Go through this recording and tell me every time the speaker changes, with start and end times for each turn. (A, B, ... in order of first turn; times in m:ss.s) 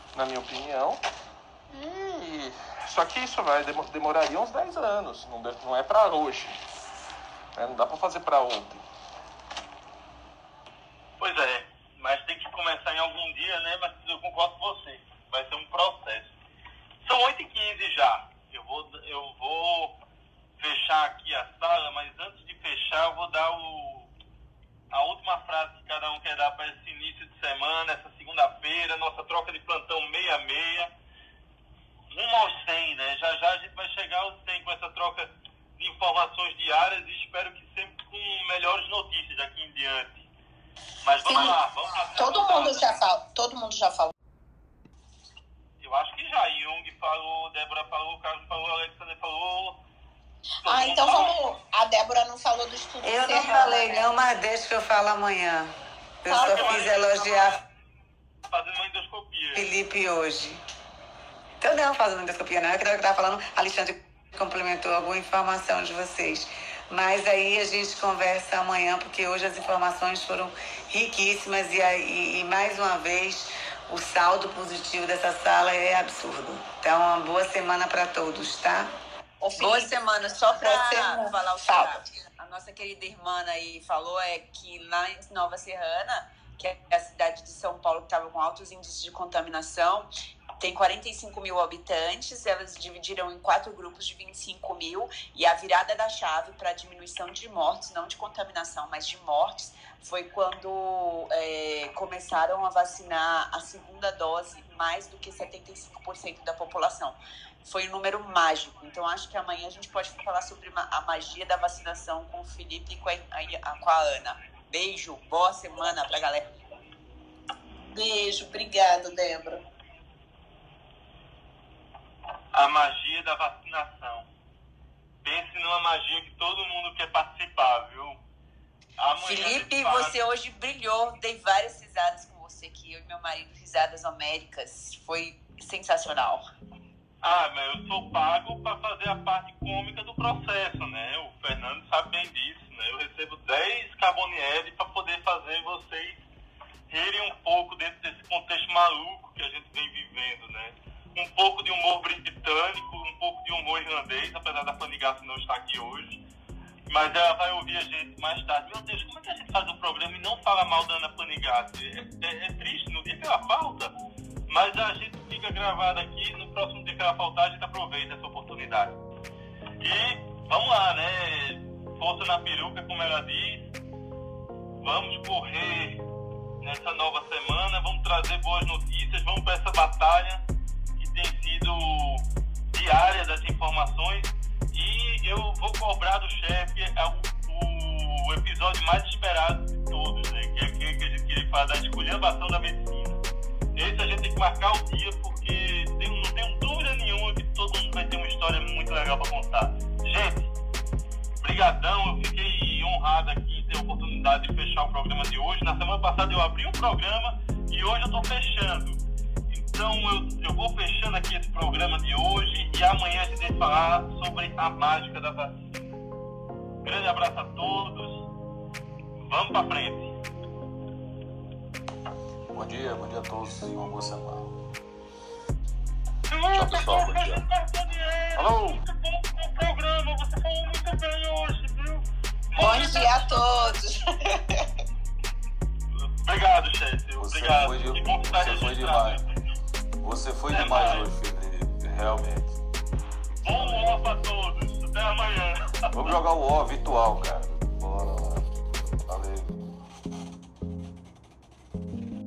0:00.1-0:01.0 A
0:01.7-0:06.6 A
0:07.6-0:08.8 A
0:11.2-0:16.3 B
0:17.0-0:20.0 B
0:20.6-0:24.1 B
0:24.9-0:30.9 B
0:32.1-0:40.2 B
0:41.0-0:42.9 B
0:41.2-0:41.6 C
0:42.2-0:44.1 C
0:45.8-0:49.8 B
0:50.6-0:51.4 B
0:50.6-0:54.1 C
0:53.0-0:55.7 D
0:56.2-0:57.6 D
0:56.3-0:57.6 B
0:56.3-0:56.7 C
0:58.5-0:59.7 B
0:59.6-1:00.6 D
1:01.6-1:18.9 D
1:19.4-1:22.1 C
1:19.6-1:56.5 E
1:57.9-1:59.6 C
2:02.5-2:04.3 B
2:05.2-2:08.2 B
2:09.0-2:10.2 B
2:09.2-2:16.5 E
2:17.2-2:26.2 B
2:26.9-2:36.2 B
2:36.9-2:43.9 B
2:44.5-2:49.0 B
2:49.8-2:53.7 B
2:54.8-2:56.0 B
2:56.6-3:00.4 B
3:01.0-3:13.2 B
3:13.8-3:20.5 B
3:21.4-3:29.0 B
3:29.5-3:35.6 B
3:36.8-3:38.3 B
3:39.2-3:40.2 B
3:42.5-3:44.5 F
3:46.3-3:53.5 B
3:46.6-3:47.4 F
3:48.4-3:48.8 A
3:52.6-3:54.7 C
3:56.0-3:59.3 B
3:57.2-3:59.2 F
4:00.0-4:02.6 F
4:00.5-4:01.1 B
4:03.4-4:06.2 B
4:03.4-4:04.0 F
4:05.9-4:08.4 F
4:09.0-4:09.6 F